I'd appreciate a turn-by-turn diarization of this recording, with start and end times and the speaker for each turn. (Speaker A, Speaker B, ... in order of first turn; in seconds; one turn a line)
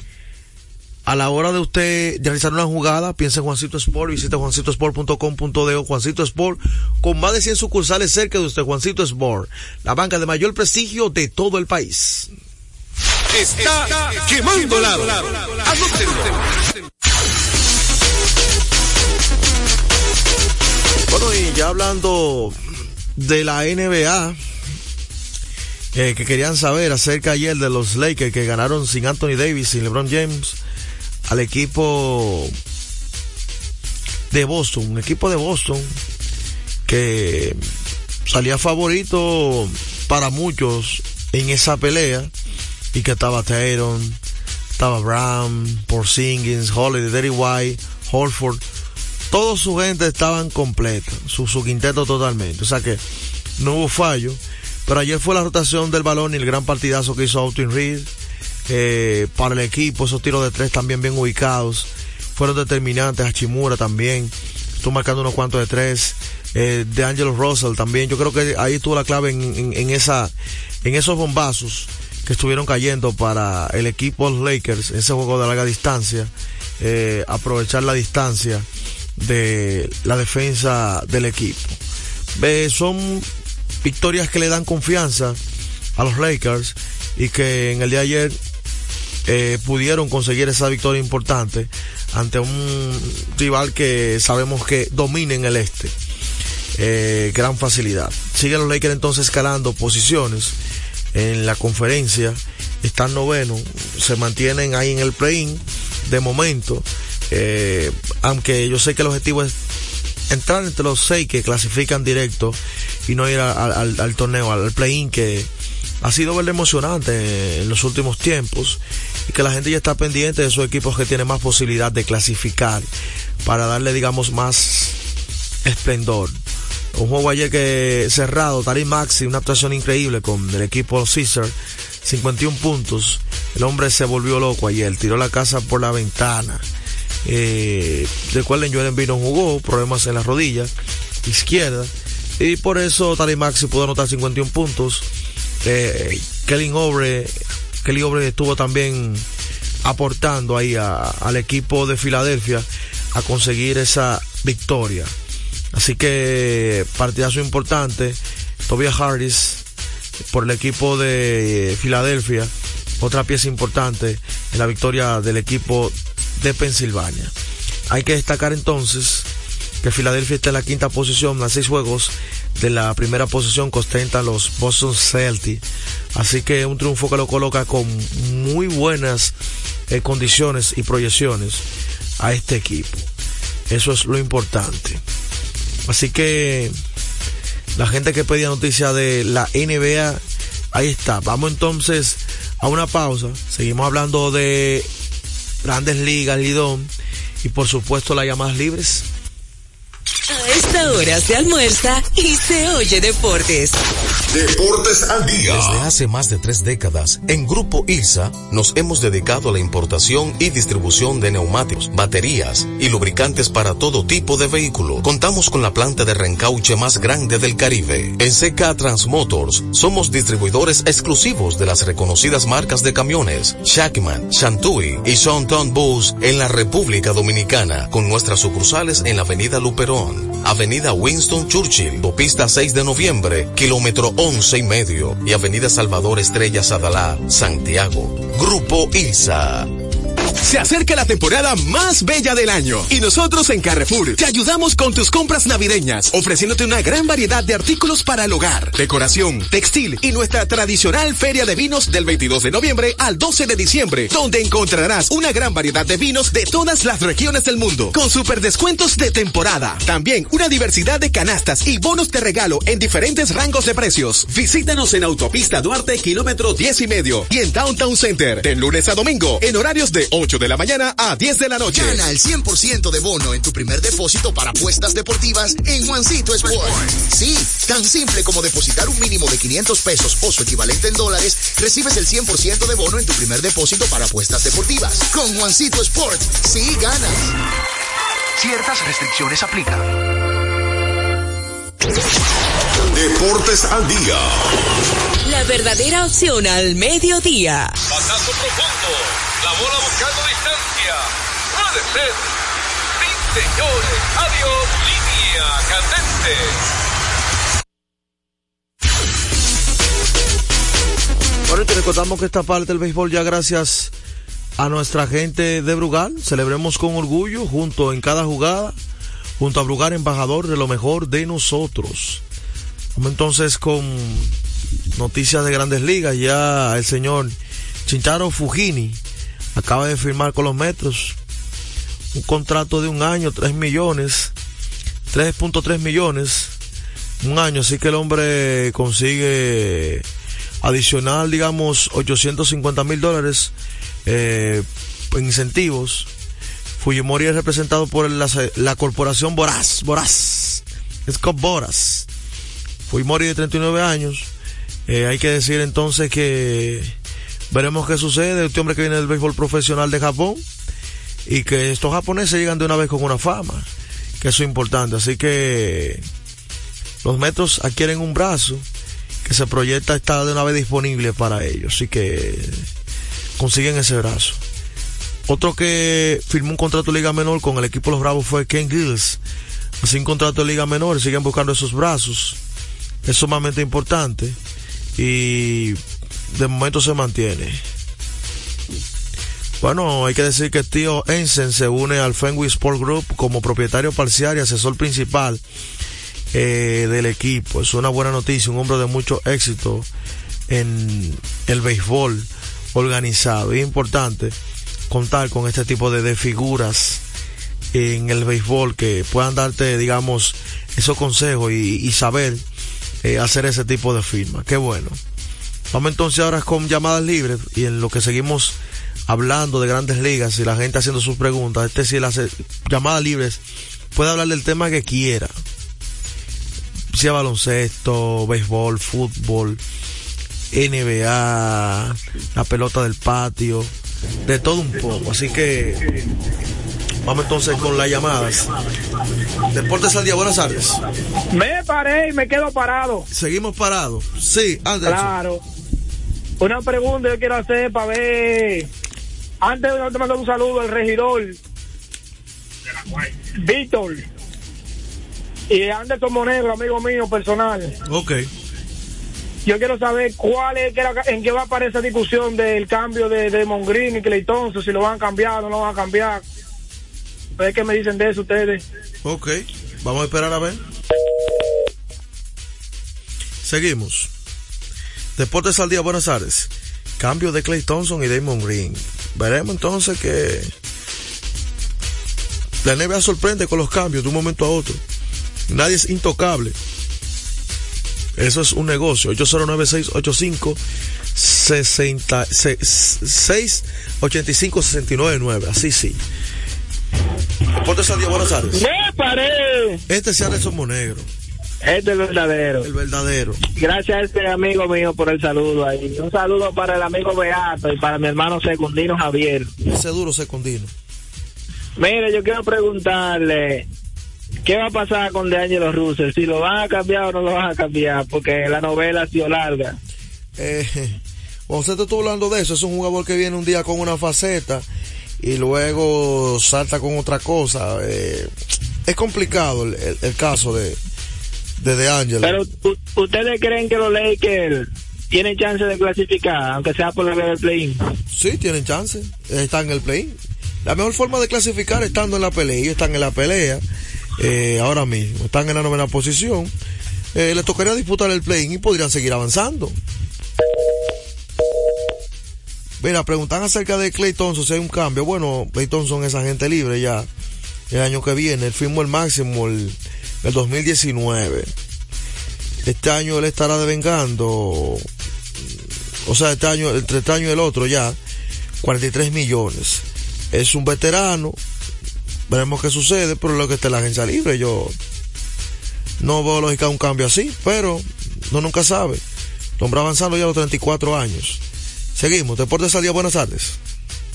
Speaker A: 1.1-12.3
Speaker A: 21.1-22.6
Speaker A: 23.1-24.4
Speaker A: 25.9-30.6
Speaker A: 31.3-32.5
Speaker A: 34.3-36.0
Speaker A: 36.9-37.6
Speaker A: 38.3-42.3
Speaker A: 42.9-44.2
Speaker A: 44.8-48.6
Speaker A: 49.3-53.0
Speaker A: 53.6-58.1
Speaker A: 58.7-70.3
Speaker A: 70.8-78.7
Speaker A: 79.2-81.8
Speaker A: 82.3-83.3
Speaker A: 83.8-85.4
Speaker A: 86.0-88.4
Speaker A: 89.2-95.9
Speaker A: 96.8-100.5
Speaker A: 101.1-109.5
Speaker A: 110.3-115.5
Speaker A: 116.0-122.9
Speaker A: 123.4-125.0
Speaker A: 125.6-126.4
Speaker A: 126.9-136.6
Speaker A: 137.2-140.7
Speaker A: 141.2-145.0
Speaker A: 145.6-149.2
Speaker A: 149.8-155.1
Speaker A: 155.7-159.6
Speaker A: 160.3-167.3
Speaker A: 167.9-169.3
Speaker A: 169.8-175.6
Speaker A: 176.1-179.3
Speaker A: 179.9-181.6
Speaker A: 182.2-183.1
Speaker A: 183.7-185.0
Speaker A: 185.9-186.7
Speaker A: 187.7-190.2
Speaker A: 190.7-194.9
Speaker A: 195.6-196.9
Speaker A: 197.4-199.1
Speaker B: 200.3-203.8
Speaker C: 204.3-205.9
Speaker D: 205.5-239.7
Speaker E: 238.3-238.8
Speaker E: 240.4-272.0
Speaker F: 271.6-287.3
Speaker C: 292.8-294.5
Speaker B: 295.2-297.7
Speaker G: 297.9-302.3
Speaker G: 302.9-306.6
Speaker A: 311.4-313.9
Speaker A: 314.6-318.8
Speaker A: 319.4-322.2
Speaker A: 322.9-324.3
Speaker A: 324.9-329.0
Speaker A: 329.6-331.2
Speaker A: 332.1-334.3
Speaker A: 335.1-336.5
Speaker A: 337.2-340.0
Speaker A: 340.6-343.5
Speaker A: 344.1-346.1
Speaker A: 346.8-352.1
Speaker A: 352.9-354.3
Speaker A: 354.9-356.9
Speaker A: 357.5-360.4
Speaker A: 361.2-363.7
Speaker A: 364.2-366.0
Speaker A: 367.0-368.6
Speaker A: 369.2-372.6
Speaker A: 373.4-374.4
Speaker A: 375.3-379.2
Speaker A: 379.8-382.4
Speaker A: 383.0-384.4
Speaker A: 385.0-385.8
Speaker A: 386.3-387.6
Speaker A: 389.6-395.4
Speaker A: 396.3-399.9
Speaker A: 400.5-404.4
Speaker A: 404.9-407.0
Speaker A: 407.7-412.4
Speaker A: 413.0-415.0
Speaker A: 415.7-418.6
Speaker A: 419.1-423.4
Speaker A: 423.9-425.3
Speaker A: 426.9-429.6
Speaker A: 430.5-433.7
Speaker A: 434.2-435.8
Speaker A: 437.0-438.5
Speaker A: 439.5-440.8
Speaker H: 441.3-443.0
Speaker A: 443.1-445.1
Speaker H: 444.8-445.4
Speaker H: 446.4-448.7
Speaker H: 449.4-451.4
Speaker H: 453.4-454.0
Speaker H: 455.5-457.7
Speaker A: 457.9-458.2
Speaker H: 459.4-466.2
Speaker H: 467.4-468.6
Speaker A: 469.0-470.6
Speaker A: 473.4-474.1
Speaker A: 475.2-480.5
Speaker A: 482.6-484.8
Speaker A: 485.5-486.5
Speaker A: 488.1-490.6
Speaker A: 491.1-496.0
Speaker A: 497.6-498.6
Speaker I: 498.5-499.8
Speaker A: 499.9-501.1
Speaker I: 501.6-502.7
Speaker A: 502.6-503.4
Speaker I: 503.6-509.5
Speaker A: 509.7-510.7
Speaker I: 511.8-513.6
Speaker I: 514.4-519.8
Speaker A: 520.4-524.7
Speaker A: 525.2-528.3
Speaker A: 528.8-530.8
Speaker A: 531.6-532.4
Speaker I: 532.2-537.8
Speaker A: 538.1-543.6
Speaker A: 544.2-546.5
Speaker A: 547.1-549.8
Speaker A: 552.8-557.1
Speaker A: 557.7-561.5
Speaker A: 562.6-564.8
Speaker A: 566.0-568.0
Speaker A: 568.6-571.4
Speaker A: 572.3-574.7
Speaker A: 576.0-579.0
Speaker A: 579.6-581.4
Speaker A: 581.9-583.6